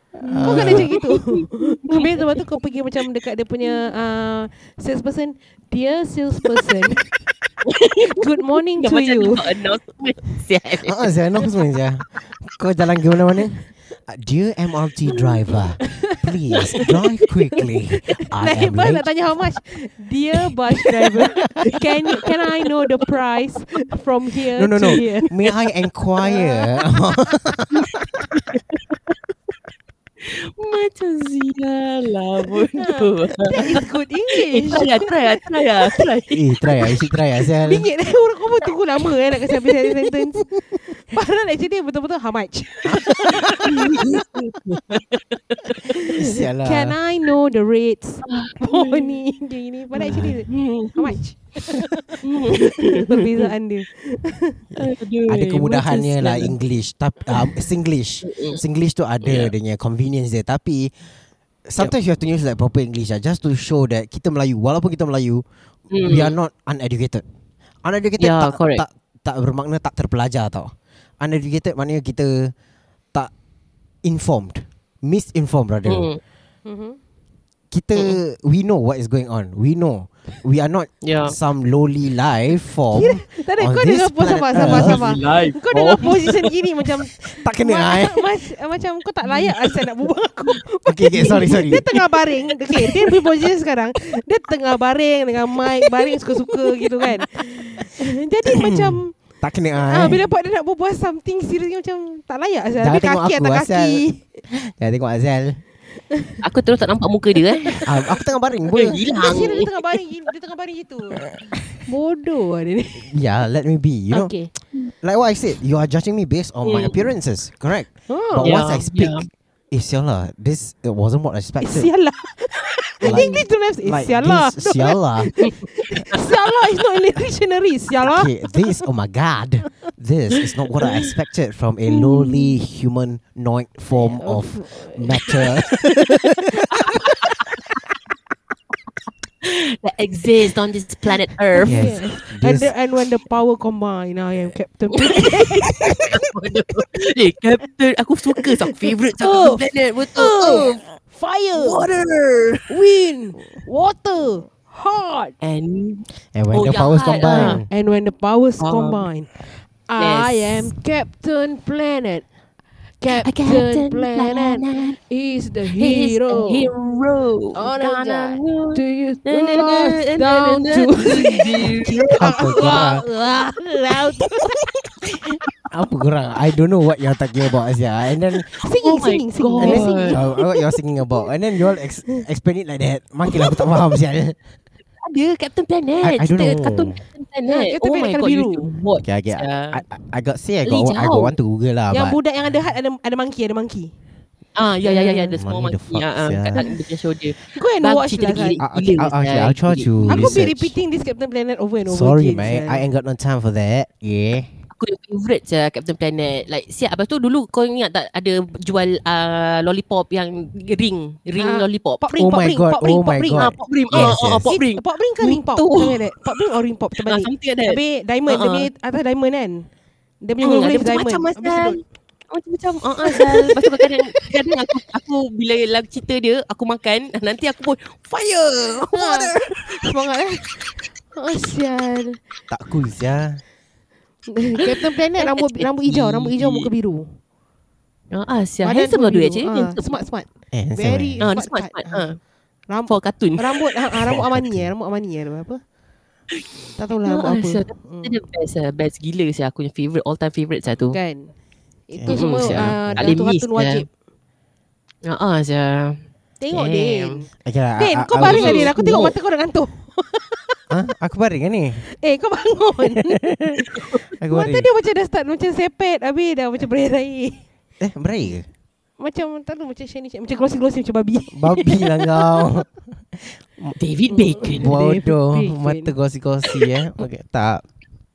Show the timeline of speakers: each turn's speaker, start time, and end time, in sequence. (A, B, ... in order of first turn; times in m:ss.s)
0:00.2-0:00.9 A
0:00.2-0:02.4 B
0:00.4-0:07.1 C
0:07.7-0:07.9 B
0:07.8-0:09.5 C
0:08.8-0:11.5 B
0:10.8-0:19.1 A
0:15.8-0:16.9 C
0:17.6-0:25.3 C
0:21.4-0:21.7 A
0:24.6-0:28.2 A
0:24.9-0:25.6 B
0:26.2-0:27.4 C
0:27.8-0:29.1 B
0:30.2-0:33.8 B
0:32.7-0:36.0 C
0:34.3-0:36.9 B
0:36.3-0:37.9 A
0:37.6-0:44.1 C
0:42.8-0:44.2 A
0:43.6-0:46.1 B
0:45.8-0:54.6 C
0:46.1-0:47.0 A
0:48.3-0:49.2 B
0:50.0-0:51.2 B
0:50.1-0:50.4 A
0:52.2-0:53.5 B
0:54.7-1:00.9 A
0:54.8-0:56.6 B
0:58.2-0:58.6 B
0:59.2-0:59.5 B
1:01.6-1:05.4 A
1:05.9-1:06.4 B
1:06.0-1:07.2 A
1:07.8-1:12.5 A
1:08.2-1:08.8 B
1:14.0-1:16.1 A
1:15.8-1:16.2 B
1:16.6-1:17.0 C
1:17.7-1:25.2 A
1:21.0-1:21.4 B
1:22.9-1:39.1 C
1:24.5-1:26.3 B
1:27.2-1:28.2 A
1:30.8-1:31.8 A
1:38.6-1:40.2 A
1:39.9-1:44.4 C
1:42.8-1:45.6 A
1:46.1-1:46.4 C
1:46.4-1:47.9 B
1:47.8-1:49.5 A
1:48.7-1:49.7 B
1:49.0-1:51.3 C
1:51.8-1:53.1 C
1:53.0-1:54.3 A
1:54.1-1:54.5 C
1:55.0-2:01.9 A
1:56.6-1:57.0 B
1:58.1-1:58.7 C
1:58.4-1:59.2 B
2:01.6-2:08.8 C
2:03.0-2:05.3 A
2:03.0-2:03.4 B
2:08.0-2:17.2 A
2:13.9-2:15.7 C
2:16.5-2:17.0 C
2:16.8-2:17.3 B
2:19.4-2:22.0 B
2:21.5-2:26.2 C
2:21.6-2:22.7 A
2:25.0-2:30.8 B
2:28.4-2:31.9 C
2:31.6-2:32.7 B
2:32.7-2:35.3 C
2:35.4-2:37.6 B
2:36.3-2:37.7 A
2:37.3-2:42.2 C
2:38.6-2:39.1 B
2:40.0-2:40.7 B
2:43.0-2:46.7 C
2:43.1-2:45.0 B
2:45.7-2:52.9 B
2:47.5-2:54.7 C
2:52.0-2:53.0 A
2:55.7-2:58.5 A
2:58.6-3:00.6 C
2:58.6-3:00.2 B
2:59.6-3:04.4 A
3:05.0-3:09.8 B
3:06.0-3:07.0 A
3:07.4-3:08.7 C
3:09.0-3:12.2 A
3:10.6-3:11.3 B
3:11.9-3:13.9 C
3:14.5-3:20.4 B
3:14.8-3:15.4 C
3:15.4-3:16.6 A
3:17.4-3:18.6 C
3:18.6-3:20.7 A
3:20.1-3:22.8 C
3:21.9-3:24.5 A
3:24.7-3:32.0 B
3:31.4-3:39.7 C
3:32.1-3:34.5 A
3:33.4-3:36.1 B
3:37.0-3:38.7 B
3:40.2-3:41.8 C
3:40.4-3:41.8 B
3:42.3-3:49.4 B
3:43.0-3:44.3 C
3:48.9-3:52.2 C
3:52.5-3:53.4 A
3:54.3-3:57.2 C
3:54.7-3:56.7 B
3:58.1-4:00.0 B
3:58.6-4:02.1 C
4:00.5-4:01.3 A
4:01.2-4:02.2 B
4:02.7-4:05.6 C
4:02.9-4:03.6 B
4:04.0-4:04.7 A
4:06.8-4:08.1 C
4:07.0-4:11.0 B
4:10.9-4:11.3 C
4:11.9-4:13.9 C
4:11.9-4:13.2 A
4:12.1-4:13.8 B
4:15.0-4:16.0 B
4:16.4-4:20.6 C
4:16.5-4:17.2 B
4:17.4-4:18.7 A
4:18.2-4:19.2 B
4:20.7-4:21.8 A
4:21.9-4:27.4 C
4:23.1-4:23.5 A
4:24.2-4:24.7 A
4:27.8-4:28.5 A
4:29.0-4:32.5 C
4:31.3-4:33.8 A
4:33.8-4:34.7 B
4:34.1-4:35.9 C
4:34.6-4:37.6 A